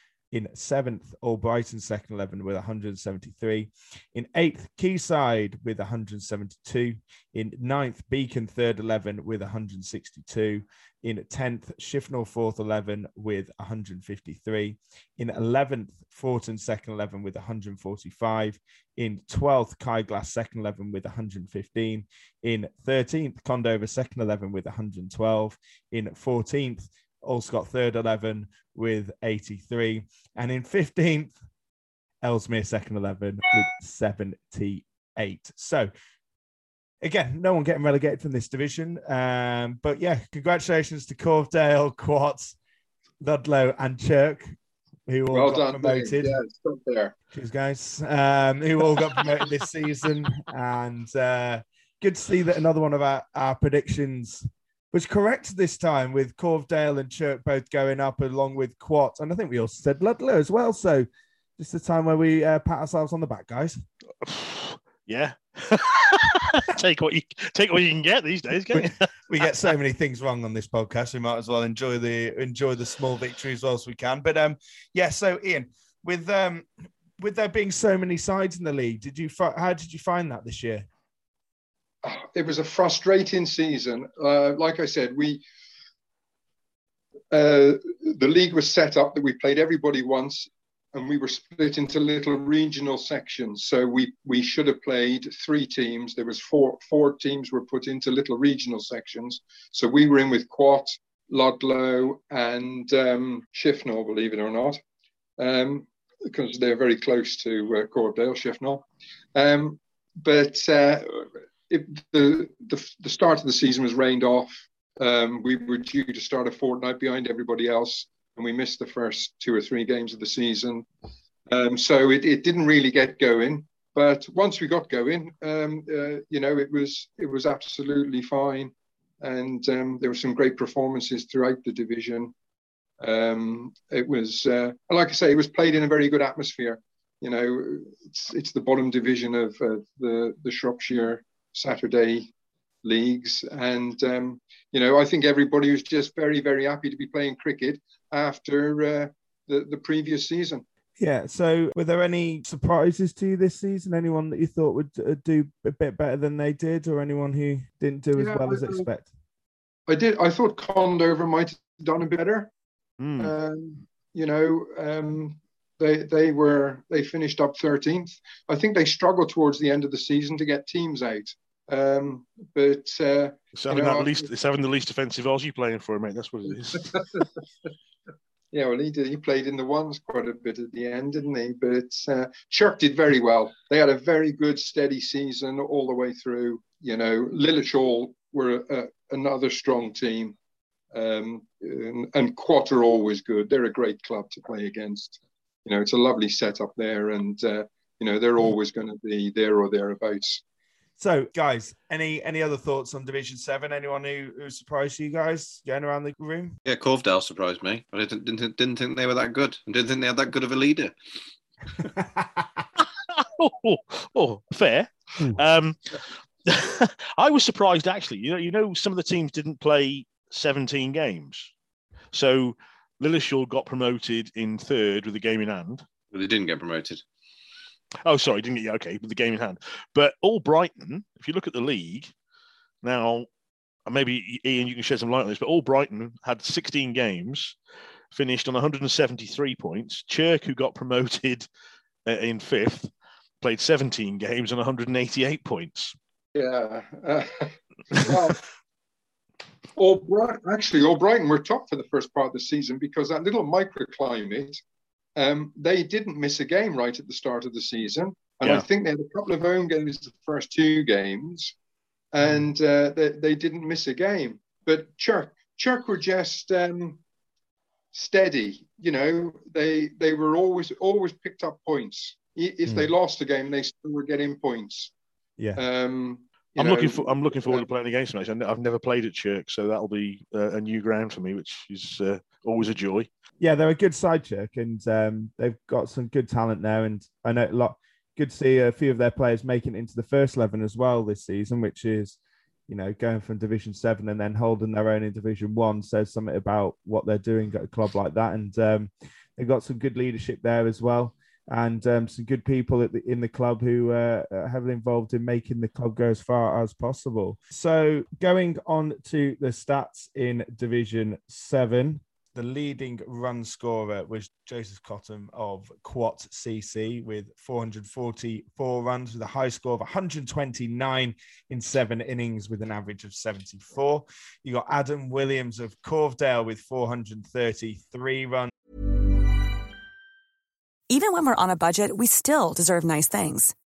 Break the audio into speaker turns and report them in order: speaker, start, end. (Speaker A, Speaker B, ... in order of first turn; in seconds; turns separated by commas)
Speaker A: 0.3-31.3, Speaker A: 32.2-35.9, Speaker A: 37.0-42.6, Speaker A: 43.2-44.5, Speaker A: 45.1-46.3, Speaker B: 45.3-47.1, Speaker A: 47.3-63.8, Speaker C: 64.2-69.0, Speaker A: 68.7-80.9, Speaker B: 82.0-85.4, Speaker B: 87.3-104.8, Speaker B: 105.4-120.8, Speaker B: 121.5-132.3, Speaker B: 133.0-142.3, Speaker B: 142.8-150.6, Speaker A: 151.0-159.1, Speaker B: 158.2-158.9, Speaker B: 159.9-162.5, Speaker C: 163.0-163.3, Speaker B: 163.2-174.3, Speaker C: 173.5-176.9, Speaker B: 176.7-177.2, Speaker B: 178.5-190.3, Speaker B: 190.9-200.4, Speaker A: 201.0-206.5, Speaker D: 206.7-210.9, Speaker C: 212.8-221.5, Speaker C: 222.1-225.8, Speaker D: 226.1-227.0, Speaker C: 228.0-232.1, Speaker C: 232.8-233.3, Speaker C: 233.8-237.6, Speaker C: 238.1-241.5, Speaker C: 242.1-242.9, Speaker C: 243.4-245.9, Speaker B: 246.3-248.4, Speaker B: 249.8-254.6, Speaker B: 255.2-261.5, Speaker B: 262.1-267.0, Speaker B: 267.9-274.9, Speaker B: 275.6-277.7, Speaker C: 276.6-283.1, Speaker A: 283.4-328.5, Speaker E: 330.9-333.5